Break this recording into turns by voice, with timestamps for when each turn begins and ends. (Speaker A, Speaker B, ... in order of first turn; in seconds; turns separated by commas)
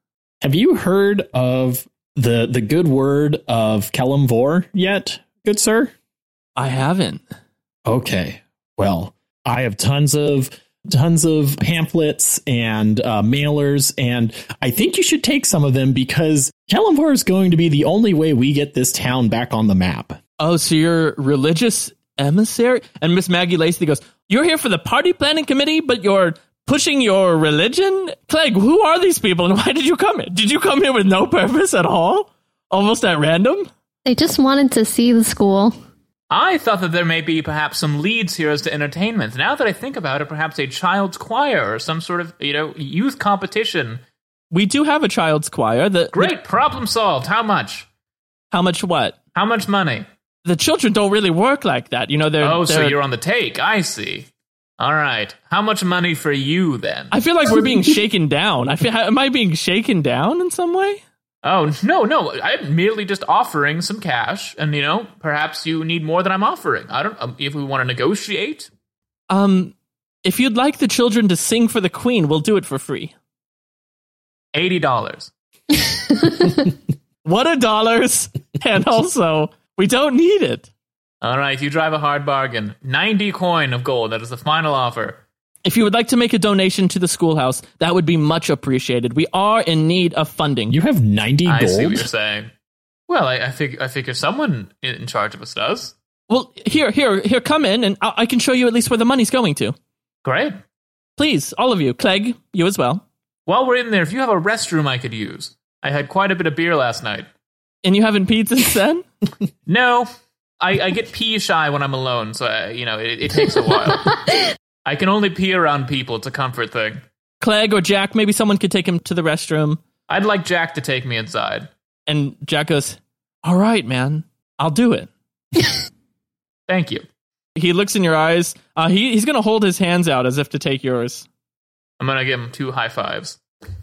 Speaker A: 0.4-5.9, Speaker B: 6.5-7.2, Speaker A: 7.8-20.2, Speaker B: 20.4-33.7, Speaker C: 34.0-35.7, Speaker D: 36.3-44.0, Speaker B: 44.5-46.3, Speaker D: 46.1-47.9, Speaker B: 48.5-49.1, Speaker D: 49.3-50.0, Speaker B: 50.4-52.9, Speaker D: 52.4-57.1, Speaker B: 57.1-61.0, Speaker D: 61.4-68.7, Speaker B: 69.3-73.1, Speaker D: 74.5-75.3, Speaker C: 75.8-76.7, Speaker B: 77.2-80.7, Speaker D: 81.2-85.2, Speaker B: 85.6-90.8, Speaker A: 90.7-92.1, Speaker D: 91.5-92.5, Speaker D: 93.1-95.9, Speaker B: 96.3-99.8, Speaker D: 100.2-100.5, Speaker B: 101.2-103.0, Speaker D: 103.5-107.3, Speaker B: 107.8-109.0, Speaker D: 109.7-110.1, Speaker D: 110.6-114.2, Speaker C: 113.8-114.4, Speaker D: 114.8-117.0, Speaker B: 117.4-119.8, Speaker D: 120.1-121.7, Speaker B: 122.1-125.1, Speaker D: 126.7-127.0, Speaker B: 127.5-131.2, Speaker D: 132.0-133.4